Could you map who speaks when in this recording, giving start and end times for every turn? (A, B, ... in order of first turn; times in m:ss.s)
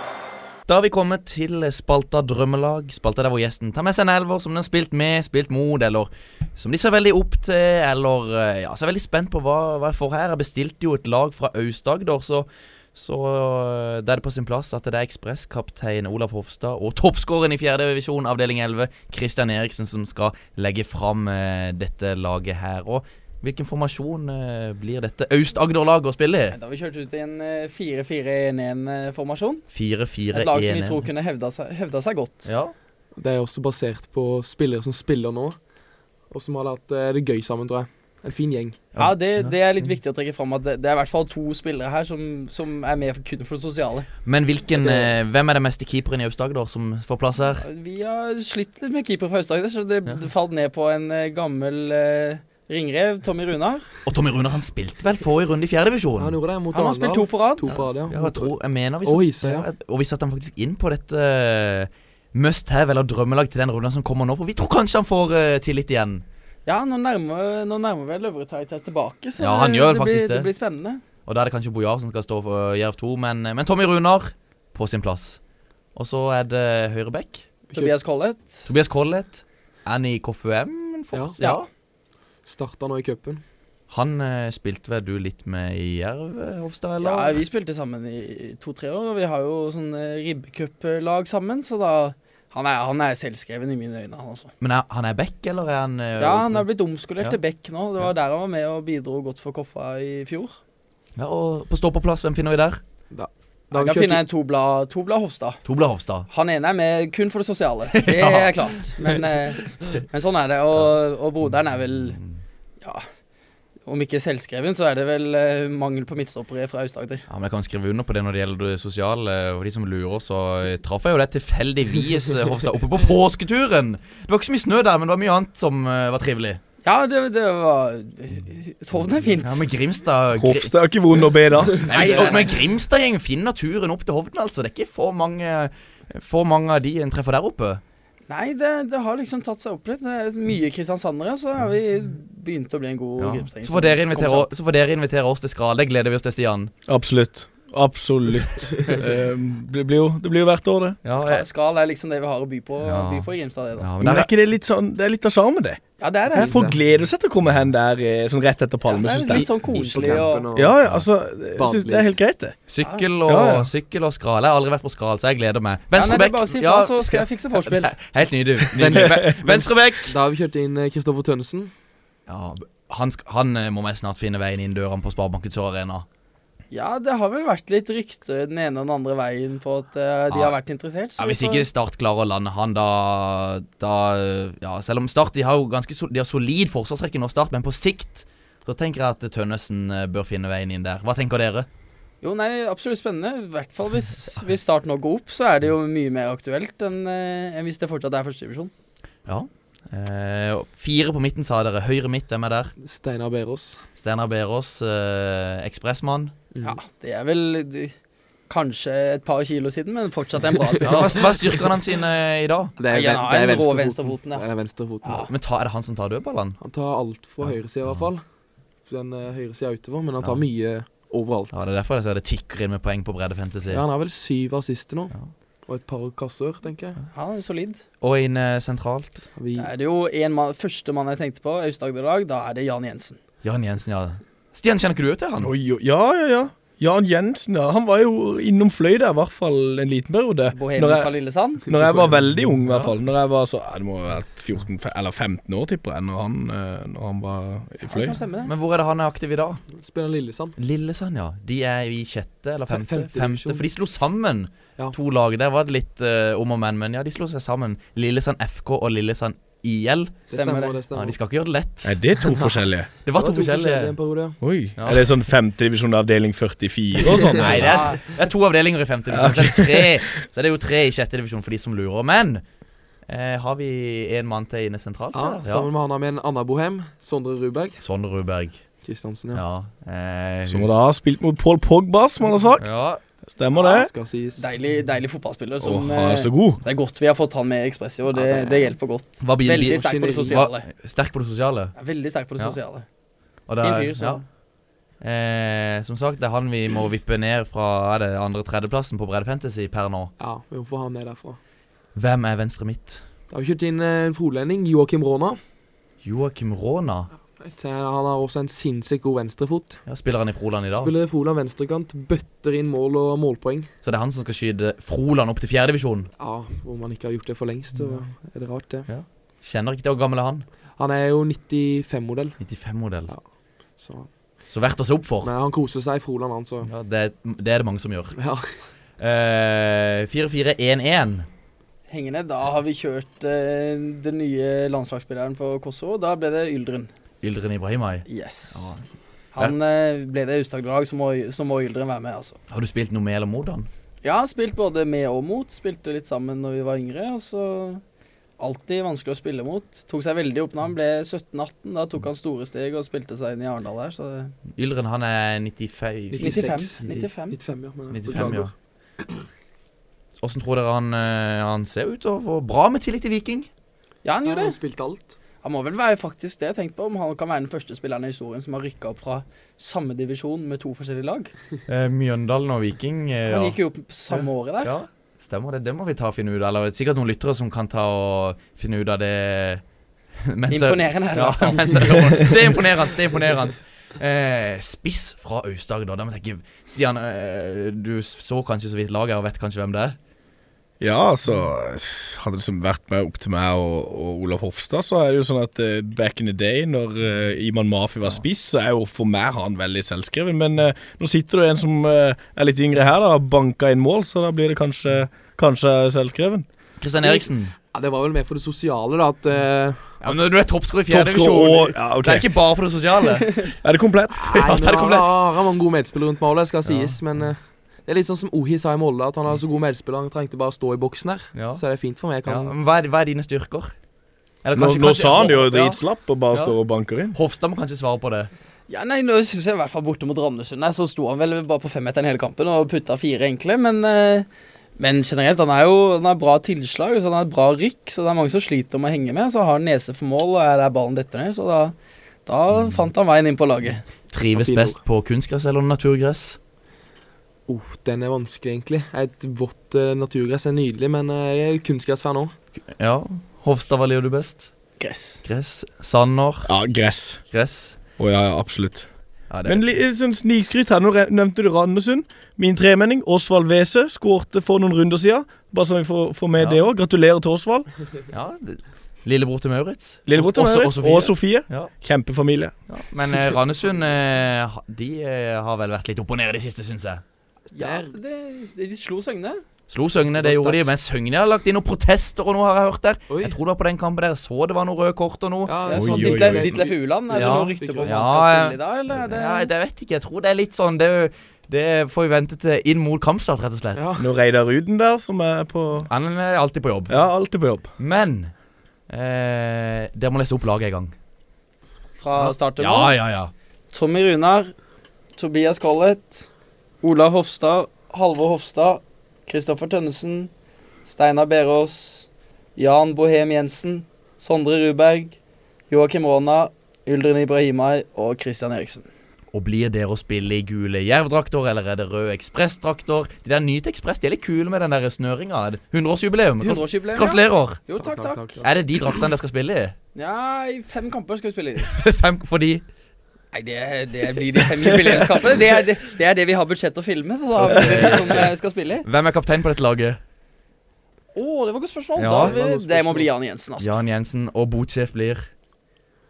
0:00.7-0:26.5 A
0:26.5-0:29.6 B
0:29.7-0:31.1 A
0:30.3-0:32.5 B
0:32.4-0:32.7 A
0:33.2-0:35.6 C
0:36.3-0:38.8 C
0:38.9-0:39.8 A
0:39.0-0:44.1 B
0:44.2-0:47.6 A
0:44.8-0:45.1 C
0:47.6-0:53.8 B
0:54.0-0:56.4 A
0:56.2-0:59.6 C
0:56.7-0:57.8 B
0:57.7-1:06.2 A
1:06.6-1:11.0 B
1:09.4-1:10.5 A
1:11.2-1:15.4 A
1:15.9-1:17.5 A
1:17.7-1:18.7 B
1:18.6-1:21.7 A
1:22.4-1:23.4 C
1:23.9-1:27.4 A
1:27.0-1:34.5 B
1:34.6-1:36.6 A
1:36.2-1:40.6 B
1:41.2-1:42.8 A
1:43.1-1:44.2 C
1:43.7-1:45.6 B
1:45.6-1:46.3 A
1:46.3-1:52.2 B
1:48.0-1:48.5 A
1:52.1-1:52.4 A
1:52.8-1:53.1 B
1:53.8-1:57.2 B
1:57.3-2:06.6 A
2:06.8-2:09.6 B
2:09.4-2:10.7 A
2:10.3-2:11.9 D
2:11.8-2:17.8 A
2:11.9-2:12.5 B
2:12.0-2:12.4 C
2:18.3-2:24.5 B
2:23.2-2:26.7 A
2:26.9-2:31.0 D
2:31.0-2:31.4 A
2:31.2-2:33.9 B
2:32.8-2:33.3 A
2:33.8-2:34.3 A
2:34.0-2:35.8 D
2:36.0-2:36.6 B
2:36.3-2:42.6 D
2:36.4-2:36.8 C
2:38.8-2:40.5 B
2:39.2-2:40.8 C
2:41.5-2:42.1 C
2:42.7-2:50.1 A
2:43.2-2:43.7 D
2:45.9-2:47.9 B
2:48.7-2:51.7 C
2:48.9-2:49.3 D
2:52.3-2:56.0 A
2:56.7-3:01.6 B
3:00.3-3:00.6 A
3:01.2-3:11.7 A
3:12.2-3:18.7 B
3:19.2-3:22.7 A
3:22.8-3:23.8 C
3:24.0-3:26.3 A
3:26.5-3:26.8 C
3:26.6-3:27.9 B
3:28.5-3:31.3 B
3:30.8-3:32.7 A
3:32.8-3:35.3 C
3:32.9-3:34.5 B
3:35.0-3:35.3 B
3:35.3-3:36.6 A
3:36.6-3:38.2 C
3:37.4-3:38.1 A
3:38.8-3:41.6 C
3:40.2-3:40.4 A
3:41.5-3:43.8 A
3:43.7-3:45.1 C
3:45.6-3:47.0 C
3:47.1-3:47.8 B
3:48.0-3:49.3 A
3:49.4-3:49.7 C
3:49.6-3:53.2 B
3:53.4-3:55.5 A
3:55.4-4:08.2 D
4:00.5-4:01.6 B
4:01.7-4:02.2 C
4:02.7-4:02.9 A
4:07.8-4:08.5 B
4:08.4-4:09.6 A
4:09.7-4:10.5 C
4:10.6-4:20.2 A
4:12.7-4:13.6 C
4:20.3-4:21.2 C
4:20.3-4:20.8 B
4:20.9-4:22.0 A
4:21.8-4:22.9 D
4:22.3-4:24.4 C
4:23.0-4:24.0 A
4:24.4-4:27.9 D
4:24.8-4:25.0 A
4:27.2-4:27.7 C
4:27.4-4:32.4 A
4:27.6-4:28.0 B
4:29.1-4:30.0 D
4:33.0-4:35.7 A
4:35.1-4:37.8 C
4:37.8-4:40.7 A
4:38.8-4:39.4 C
4:40.5-4:43.9 D
4:42.6-4:43.0 A
4:43.6-4:43.8 B
4:43.6-4:44.4 C
4:44.4-4:50.6 B
4:45.6-4:46.6 D
4:48.1-4:48.8 C
4:49.2-4:51.8 A
4:49.5-4:50.4 C
4:51.8-4:52.9 B
4:53.5-4:54.3 A
4:53.6-4:54.2 B
4:55.0-5:00.1 A
5:00.2-5:01.4 C
5:01.9-5:03.0 A
5:03.3-5:05.4 C
5:06.0-5:07.1 A
5:07.4-5:09.8 C
5:09.8-5:10.9 A
5:10.7-5:13.7 C
5:13.8-5:16.1 A
5:16.2-5:18.9 C
5:17.7-5:18.0 A
5:18.9-5:20.4 A
5:20.8-5:22.4 C
5:22.4-5:23.1 A
5:23.0-5:24.5 C
5:24.5-5:25.3 A
5:25.2-5:26.7 C
5:26.6-5:28.2 A
5:28.2-5:28.6 C
5:29.0-5:31.3 A
5:31.9-5:36.9 B
5:37.2-5:38.8 A
5:38.1-5:38.8 B
5:39.3-5:42.4 B
5:42.5-5:43.7 A
5:44.0-5:47.8 B
5:48.4-5:54.3 B
5:54.6-5:57.0 A
5:56.1-5:58.5 C
5:56.2-5:57.4 B
5:57.9-5:58.5 A
6:00.2-6:03.5 A
6:04.0-6:04.6 B
6:04.2-6:05.2 C
6:05.4-6:11.3 B
6:11.7-6:13.6 A
6:13.3-6:14.7 B
6:14.6-6:19.6 A
6:20.2-6:30.0 A
6:20.5-6:22.4 B
6:30.8-6:46.4 D
6:46.8-6:47.5 A
6:47.7-6:50.0 C
6:50.0-6:53.5 A
6:50.9-6:52.2 D
6:53.6-6:54.3 D
6:54.2-7:02.5 C
6:54.2-6:55.1 A
6:56.6-6:57.0 A
7:01.3-7:01.6 A
7:02.2-7:03.7 A
7:04.4-7:06.6 A
7:04.5-7:07.1 D
7:07.1-7:08.3 A
7:08.7-7:14.3 B
7:14.8-7:23.8 B
7:22.5-7:22.8 A
7:24.1-7:26.4 A
7:24.3-7:24.8 C
7:27.5-7:32.3 C
7:32.8-7:34.5 A
7:34.8-7:35.2 B
7:35.2-7:36.5 A
7:36.5-7:37.3 D
7:37.3-7:37.8 A
7:38.0-7:38.9 D
7:39.3-7:39.6 A
7:39.4-7:47.7 D
7:46.4-7:46.6 A
7:48.1-7:51.7 A
7:50.1-7:52.6 D
7:52.7-7:57.0 A
7:57.5-7:57.9 C
7:57.5-7:59.4 B
7:59.7-8:06.0 A
8:00.2-8:00.6 C
8:03.1-8:03.4 C
8:05.4-8:08.2 C
8:05.6-8:09.5 B
8:05.8-8:06.7 D
8:07.1-8:13.9 A
8:13.7-8:14.1 C
8:14.0-8:15.9 D
8:15.9-8:17.0 A
8:16.9-8:17.7 D
8:17.8-8:18.3 A
8:18.9-8:20.9 A
8:22.0-8:22.9 B
8:22.6-8:23.3 A
8:23.7-8:24.5 B
8:25.2-8:26.3 B
8:26.8-8:30.3 B
8:30.8-8:35.2 B
8:35.7-8:38.9 B
8:39.3-8:47.6 A
8:46.4-8:48.4 B
8:47.8-8:49.0 C
8:48.4-8:49.7 A
8:49.9-8:51.7 B
8:51.7-8:52.6 A
8:53.3-8:58.8 B
8:57.6-8:58.3 A
8:58.8-9:00.0 A
9:01.1-9:03.7 B
9:02.0-9:02.4 A
9:02.2-9:03.1 C
9:03.6-9:05.2 A